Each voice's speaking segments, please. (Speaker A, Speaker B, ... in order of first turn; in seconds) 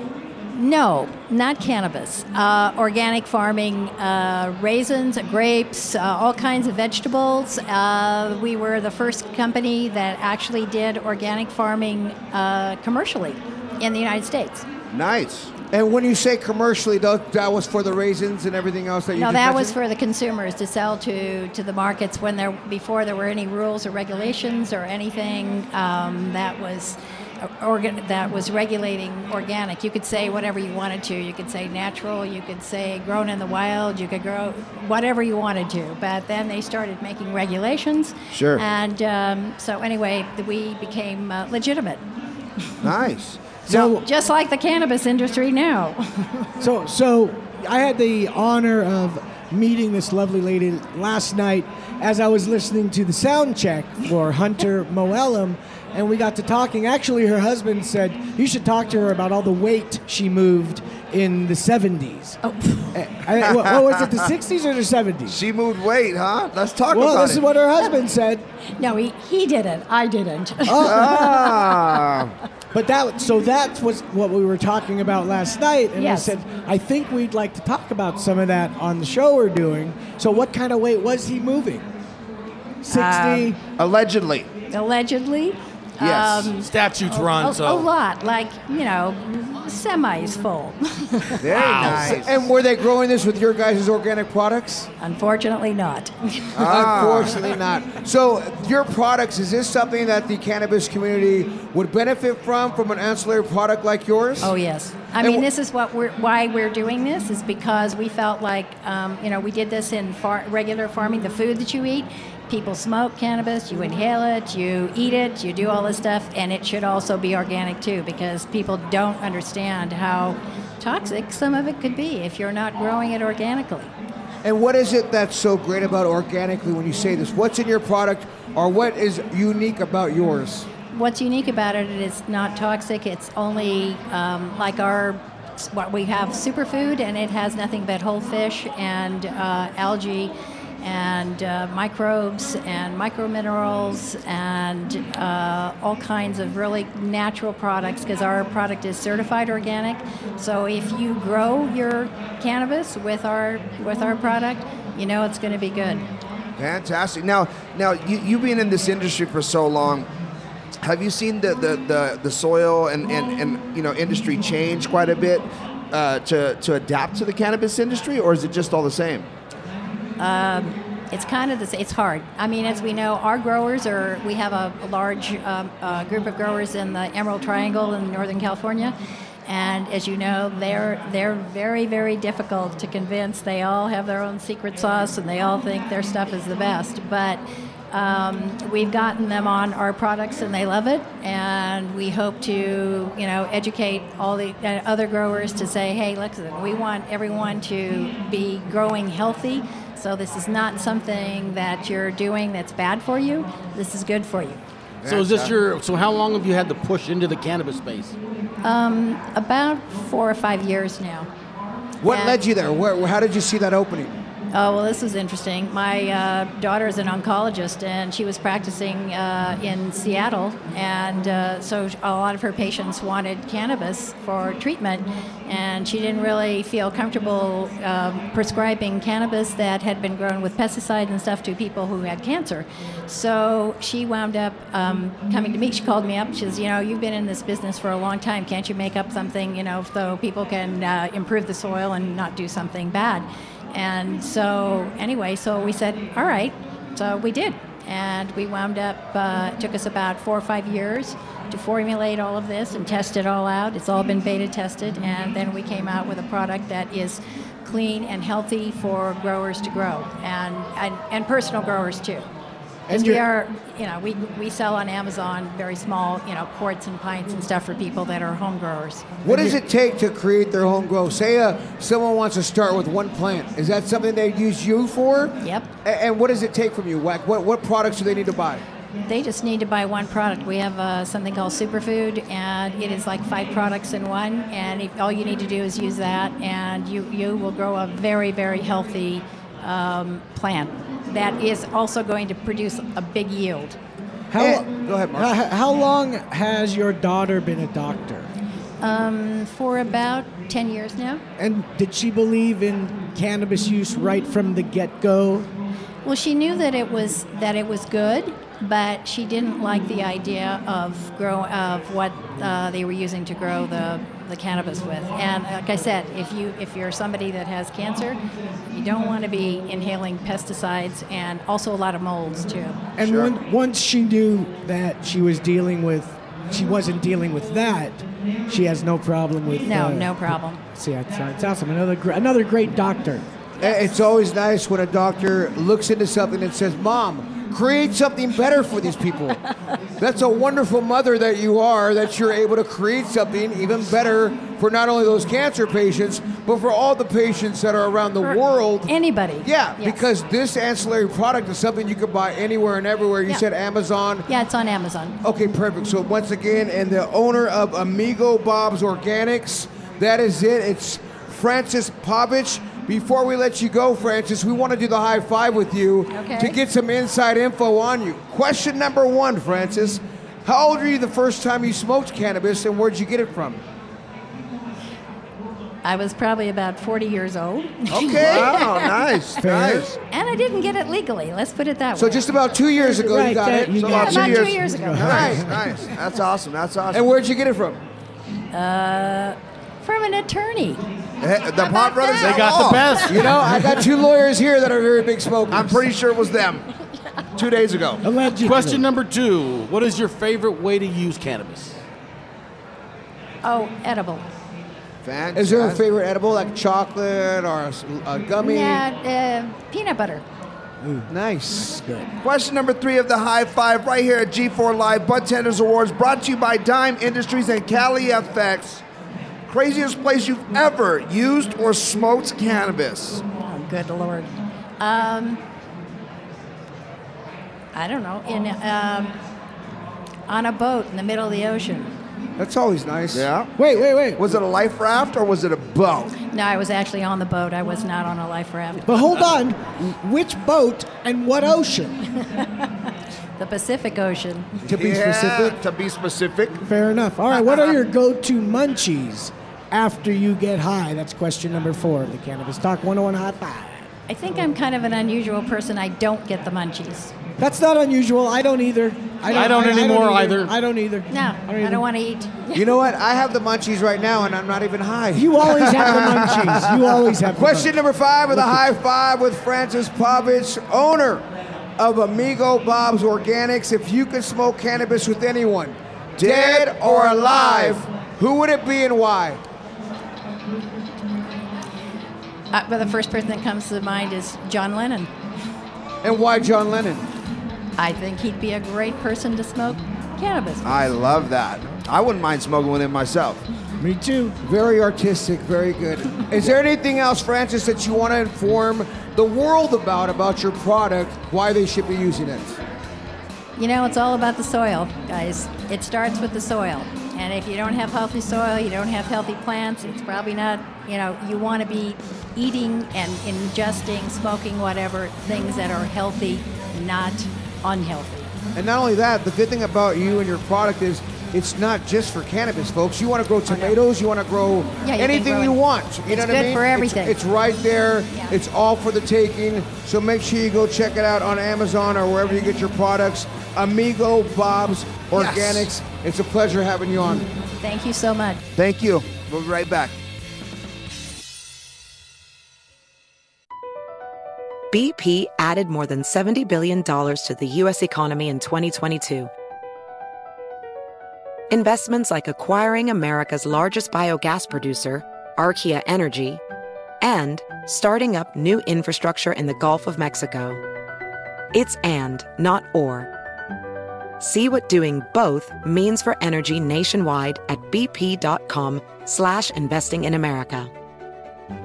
Speaker A: 0.5-14.7, 19.1-42.0, 43.7-46.5, 62.4-62.9, 68.8-72.1, 76.0-76.3, 82.9-83.5, 84.7-91.5, 95.0-96.7, 104.4-123.9, 130.9-156.1, 170.2-178.9, 179.5-204.6, 208.6-211.3, 212.1-212.4, 214.5-262.2, 262.9-269.2, 275.4-275.7, 279.1-293.8, 298.8-301.2, 306.0-318.2, 318.7-322.8, 329.6-330.6, 348.2-350.0, 354.3-355.2, 366.1-366.6, 375.8-379.0, 380.1-382.3, 383.9-385.6, 388.5-390.8, 391.6-393.7, 403.4-404.2, 408.4-410.2, 423.4-425.4, 427.7-429.1, 430.3-431.9, 436.3-439.2, 442.2-442.7, 443.4-444.6, 454.1-457.1, 459.3-459.7, 461.1-462.8, 482.5-485.1, 487.8-490.8, 503.6-518.3, 523.5-523.8, 524.8-527.2, 537.6-538.4
Speaker B: 14.9-15.5, 38.3-38.6, 42.8-43.7, 63.5-63.9, 65.2-67.5, 70.8-72.3, 83.8-84.5, 86.0-86.5, 91.4-92.3, 96.5-97.5, 156.6-160.1, 160.8-169.3, 205.0-205.5, 323.0-323.4, 377.9-380.0, 383.8-387.0, 391.2-393.1, 395.5-396.6, 397.4-398.0, 405.0-405.8, 412.2-418.8, 419.5-423.2, 433.1-436.1, 444.6-446.6, 476.2-477.8, 490.6-493.4, 535.1-535.7, 538.5-539.9
Speaker C: 15.7-19.8, 91.7-94.9, 96.6-104.5, 105.2-105.5, 124.4-130.7, 212.0-214.2, 262.9-263.2, 269.2-278.6, 294.3-295.4, 333.6-339.4, 340.0-348.9, 349.4-354.2, 355.2-373.6, 381.9-384.3, 386.9-387.8, 393.1-395.8, 405.3-408.8, 411.1-411.8, 432.4-433.3, 462.5-471.2, 471.8-479.4, 486.0-487.1, 494.4-502.6, 518.5-537.2
Speaker D: 43.6-44.0, 46.6-62.4, 62.9-65.4, 66.9-68.5, 70.7-71.5, 72.7-81.8, 82.8-83.6, 294.3-298.3, 301.4-305.5, 323.0-333.2, 379.4-379.9, 382.8-385.7, 398.0-398.9, 410.8-412.1, 433.6-434.3, 438.9-442.0, 444.7-445.5, 446.6-453.9, 457.4-461.8, 465.1-467.8, 468.3-468.6, 493.8-494.4
Speaker E: 86.6-87.9, 91.5-92.0, 205.1-208.2, 392.2-393.2, 398.4-401.8, 459.3-460.5
Speaker F: 544.7-549.3, 551.5-556.4, 557.0-560.6, 561.5-563.1, 564.2-570.7